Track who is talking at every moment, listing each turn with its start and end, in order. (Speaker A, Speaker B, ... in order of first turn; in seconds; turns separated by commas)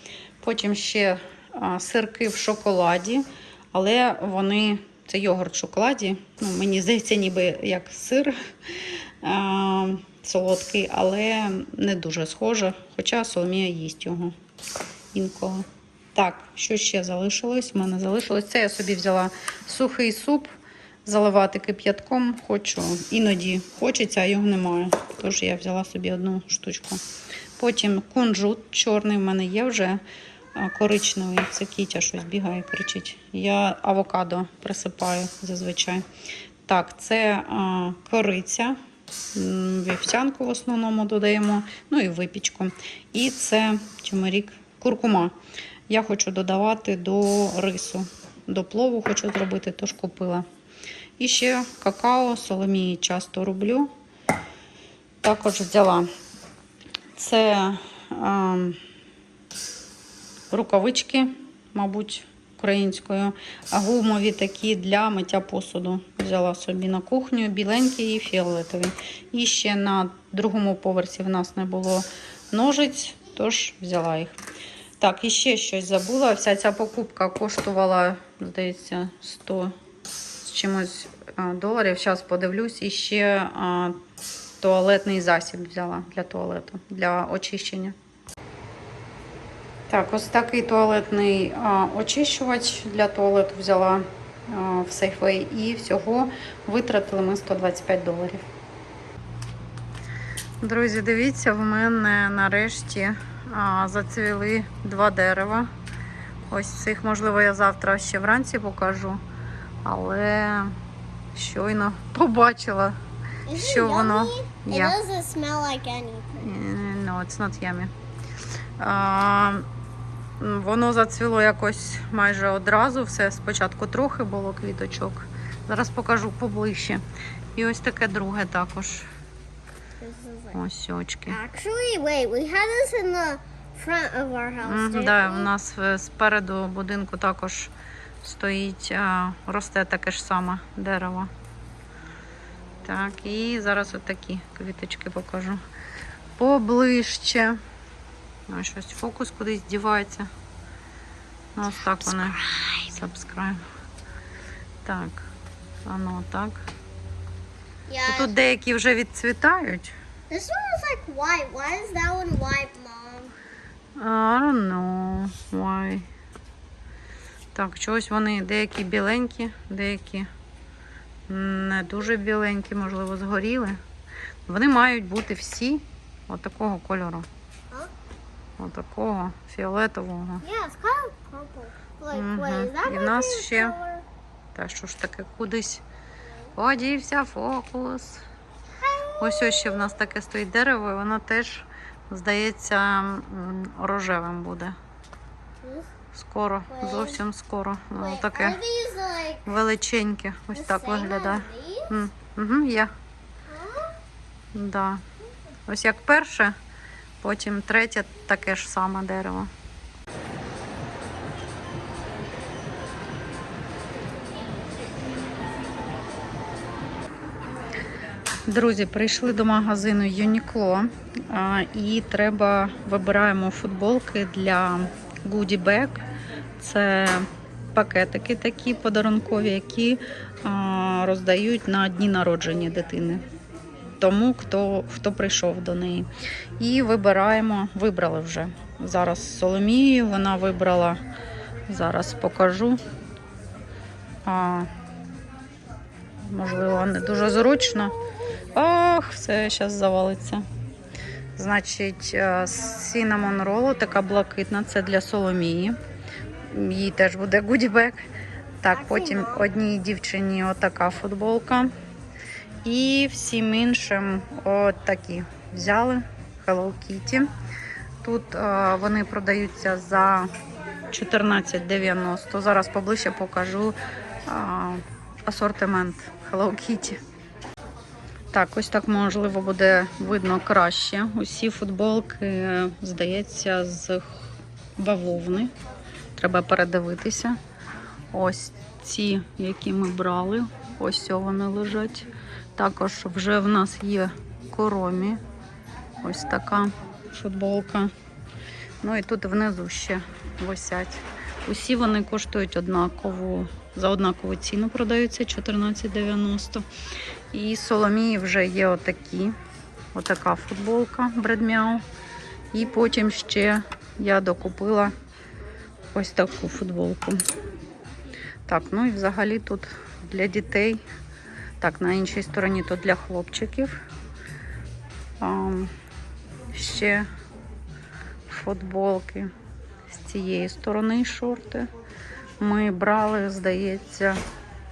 Speaker A: 0.4-14.3, Speaker A: 15.1-20.5, Speaker A: 21.1-27.0, Speaker A: 27.6-30.0, Speaker A: 30.6-36.0, Speaker A: 36.7-38.8, Speaker A: 39.4-45.4, Speaker A: 45.9-50.5, Speaker A: 51.2-53.9, Speaker A: 55.2-56.1, Speaker A: 57.1-58.8, Speaker A: 60.5-74.4, Speaker A: 75.0-79.7, Speaker A: 80.4-84.0, Speaker A: 84.6-88.0, Speaker A: 89.9-98.4, Speaker A: 100.6-105.7, Speaker A: 106.5-109.2, Speaker A: 109.8-110.8, Speaker A: 111.3-113.0, Speaker B: 113.5-116.5, Speaker A: 113.5-115.0, Speaker A: 116.4-117.9, Speaker A: 118.8-119.7, Speaker A: 120.4-127.0, Speaker A: 127.5-129.1, Speaker B: 130.0-130.6, Speaker A: 130.5-131.4, Speaker B: 131.3-135.5, Speaker A: 134.6-141.3, Speaker A: 142.8-145.6, Speaker A: 146.4-147.6, Speaker A: 148.5-150.3, Speaker A: 151.6-153.6, Speaker A: 154.8-155.3, Speaker A: 155.9-156.7, Speaker B: 157.9-158.3, Speaker A: 158.1-160.0, Speaker B: 160.3-163.3, Speaker A: 164.0-166.1, Speaker A: 167.5-170.3, Speaker A: 171.3-173.8, Speaker A: 174.5-177.3, Speaker A: 178.6-180.4, Speaker B: 180.4-184.1, Speaker A: 182.1-183.8, Speaker A: 184.5-185.8, Speaker A: 186.6-188.2, Speaker B: 188.8-189.7, Speaker A: 189.2-194.8, Speaker B: 195.6-195.9, Speaker A: 196.1-198.6, Speaker B: 196.8-197.2, Speaker B: 197.9-199.5, Speaker A: 199.4-202.9, Speaker B: 200.5-201.9, Speaker B: 203.5-203.9, Speaker A: 204.5-205.0, Speaker A: 205.7-206.6, Speaker A: 207.2-209.5, Speaker A: 218.5-226.0, Speaker A: 226.6-233.2, Speaker A: 234.0-241.0, Speaker A: 241.7-242.8, Speaker A: 244.2-244.7, Speaker A: 246.3-248.0, Speaker A: 248.5-250.5, Speaker A: 251.4-255.8, Speaker A: 256.5-258.1, Speaker A: 258.6-261.7, Speaker B: 258.9-259.4, Speaker A: 262.6-267.3, Speaker A: 268.0-270.3, Speaker A: 270.9-277.0, Speaker A: 278.3-284.2, Speaker A: 284.8-285.5, Speaker A: 286.2-287.4, Speaker A: 288.1-295.2, Speaker A: 296.0-297.9, Speaker A: 298.8-306.7, Speaker A: 307.3-309.4, Speaker A: 309.9-311.9, Speaker A: 312.5-314.9, Speaker A: 315.9-317.2, Speaker A: 318.5-320.8, Speaker A: 321.6-323.8, Speaker A: 325.2-325.7, Speaker A: 326.5-327.1, Speaker A: 328.3-329.3, Speaker A: 329.9-331.7, Speaker A: 332.4-334.2